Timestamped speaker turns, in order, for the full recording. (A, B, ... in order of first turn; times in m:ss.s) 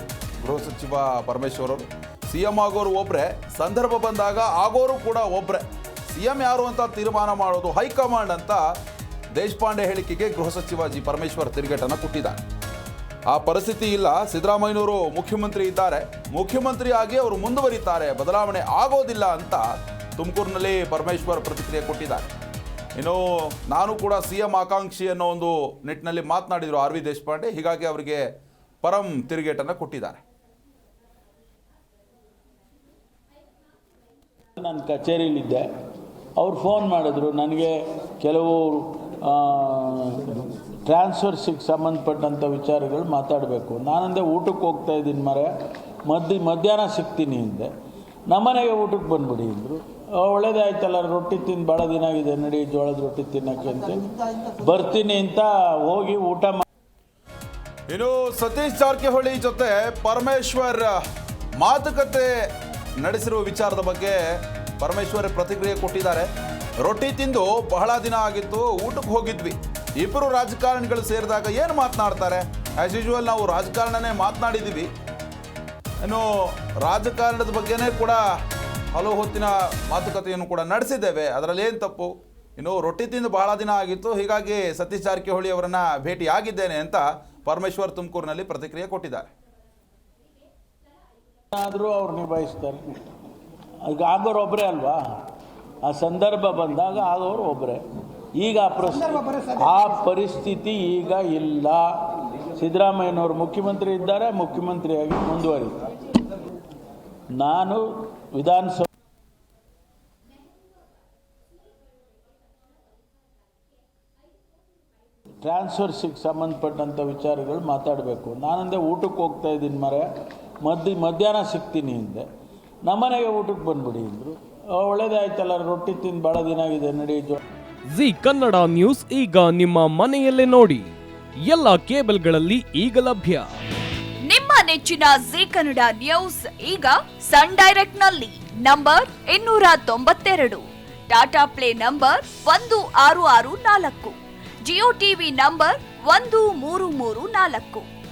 0:00.4-0:08.7 A
0:09.4-0:12.4 A
0:13.3-0:22.3 A
0:23.0-0:28.2 A
0:28.8-0:30.2 A
0:34.6-0:35.6 B
0:36.4-0:45.5 B
0:46.1-0:47.7 B
0:48.3-0:56.6 B
0:57.9-1:01.0 A
1:01.6-1:02.3 A
1:03.0-1:06.3 A
1:06.8-1:14.9 A
1:16.0-1:18.2 A
1:18.9-1:29.3 A
1:31.5-1:33.0 B
1:33.8-1:35.0 B
1:35.8-1:37.8 B
1:38.4-1:41.8 B
1:42.6-1:45.7 B
1:47.4-1:48.9 B
1:55.4-2:00.0 B
2:00.6-2:02.2 B
2:02.8-2:07.4 B
2:07.9-2:10.9 C
2:11.4-2:13.5 C
2:14.2-2:24.2 D
2:24.7-2:27.9 D